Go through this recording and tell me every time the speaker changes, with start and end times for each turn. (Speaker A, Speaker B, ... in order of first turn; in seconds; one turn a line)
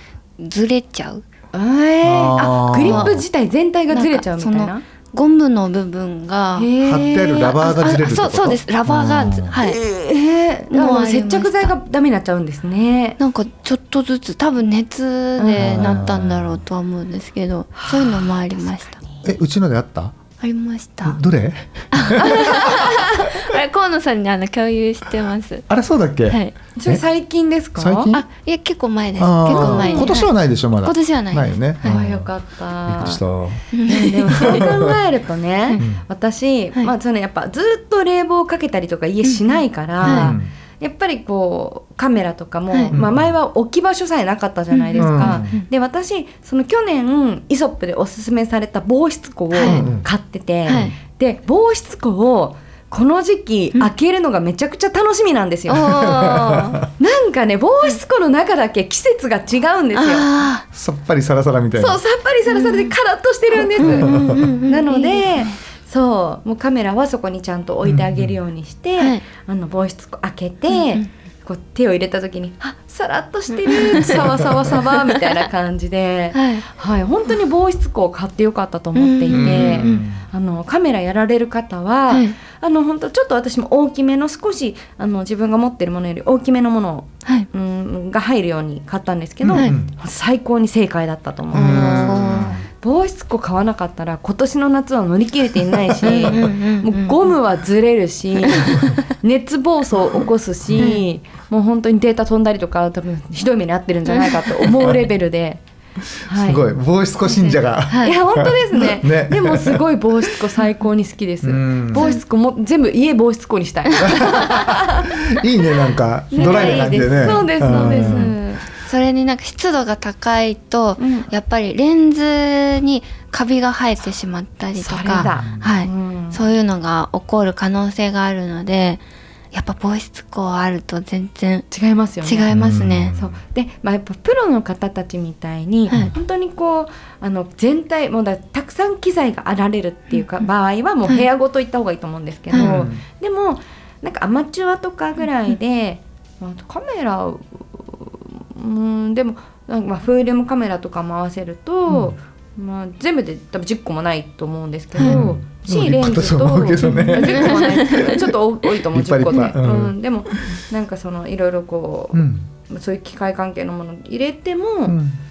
Speaker A: 0.4-1.2
Speaker B: 1.5-4.8
Speaker C: 2.0-3.2
Speaker A: 2.8-3.2
Speaker A: 3.9-6.7
Speaker B: 6.6-7.5
Speaker C: 6.8-9.6
Speaker A: 7.3-9.8
Speaker B: 9.6-13.2
Speaker A: 10.7-11.7
Speaker A: 13.2-19.0
Speaker B: 15.4-16.2
Speaker C: 15.6-16.6
Speaker B: 17.7-19.2
Speaker C: 19.2-20.1
Speaker A: 20.4-21.2
Speaker C: 21.0-22.9
Speaker A: 21.9-25.7
Speaker B: 22.1-23.3
Speaker C: 25.7-27.0
Speaker A: 26.3-26.5
Speaker B: 26.8-28.1
Speaker C: 27.7-28.2
Speaker A: 28.1-32.0
Speaker C: 29.2-32.3
Speaker B: 29.5-30.2
Speaker B: 31.8-33.2
Speaker C: 32.9-33.7
Speaker A: 33.7-34.5
Speaker B: 33.8-56.4
Speaker C: 34.4-34.9
Speaker C: 40.0-40.5
Speaker A: 40.0-40.3
Speaker C: 42.9-43.4
Speaker A: 44.7-45.6
Speaker C: 45.0-45.6
Speaker A: 49.5-49.8
Speaker C: 49.6-50.0
Speaker A: 50.6-50.9
Speaker A: 55.7-56.8
Speaker C: 56.0-56.8
Speaker B: 57.0-60.3
Speaker A: 59.9-60.6
Speaker C: 60.7-62.0
Speaker B: 61.7-105.6
Speaker A: 62.5-62.9
Speaker A: 63.8-65.5
Speaker C: 63.8-64.4
Speaker C: 67.8-68.4
Speaker A: 69.0-69.2
Speaker A: 70.7-71.0
Speaker A: 73.8-74.2
Speaker A: 76.3-76.7
Speaker A: 79.0-80.0
Speaker C: 79.3-80.2
Speaker A: 82.1-82.3
Speaker C: 89.4-89.9
Speaker A: 91.5-92.5
Speaker C: 91.5-92.7
Speaker A: 96.0-97.2
Speaker A: 98.5-98.8
Speaker A: 100.8-101.0
Speaker C: 106.1-110.3
Speaker B: 106.2-106.7
Speaker B: 107.2-115.4
Speaker A: 107.9-108.1
Speaker C: 111.4-112.1
Speaker A: 111.9-112.2
Speaker C: 114.0-118.3
Speaker B: 116.3-118.6
Speaker A: 116.3-131.7
Speaker B: 121.0-121.3
Speaker B: 124.8-126.4
Speaker C: 125.4-125.7
Speaker B: 131.7-132.6
Speaker A: 132.2-133.1
Speaker C: 132.5-133.3
Speaker B: 133.1-165.0
Speaker C: 142.5-143.0
Speaker C: 151.9-152.1
Speaker C: 155.0-160.6
Speaker A: 156.8-158.2
Speaker C: 162.1-162.5
Speaker C: 164.9-165.2